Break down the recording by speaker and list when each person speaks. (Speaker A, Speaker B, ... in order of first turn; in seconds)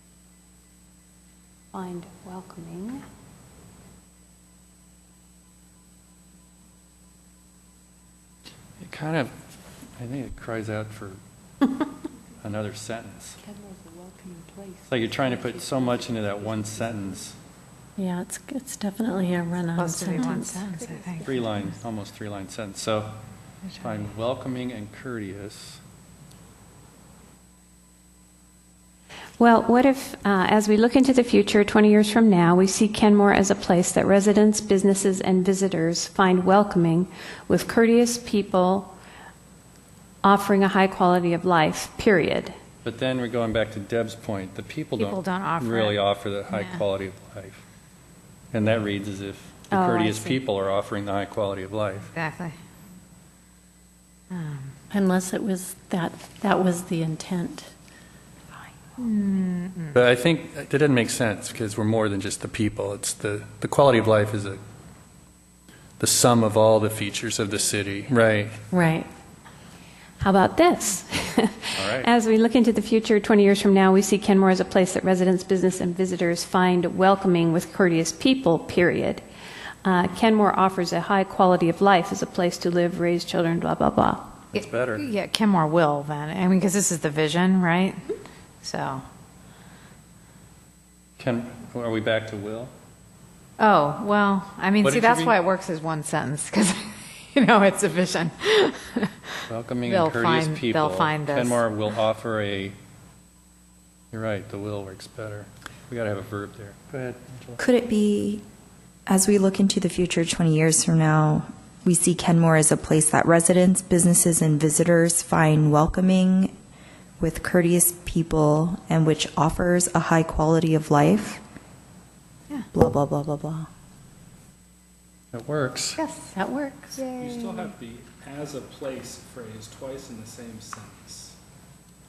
Speaker A: 1.7-3.0, 29.4-38.9, 40.2-42.5, 49.7-50.4, 70.2-79.2, 79.8-84.3
Speaker B: 8.8-9.3, 10.0-11.2, 12.4-13.4, 14.9-17.4, 21.2-23.2, 23.7-25.8, 42.8-47.6, 48.5-52.1, 59.9-64.6, 66.0-68.6, 71.7-72.1, 84.5-85.0, 91.2-92.7, 94.8-95.4, 99.5-102.7, 104.1-107.6, 125.3-126.0
Speaker C: 18.0-20.9, 54.9-57.7, 68.7-69.1, 126.3-127.0
Speaker D: 19.7-21.3, 45.0-46.0, 46.5-46.8, 52.1-52.6, 54.3-54.7, 59.0-60.0, 84.5-88.0, 88.6-89.0, 93.6-99.2, 99.8-101.6, 126.0-126.3, 126.9-127.7
Speaker E: 107.6-108.4, 109.1-116.5, 117.2-121.4, 122.7-123.7
Speaker F: 127.2-131.4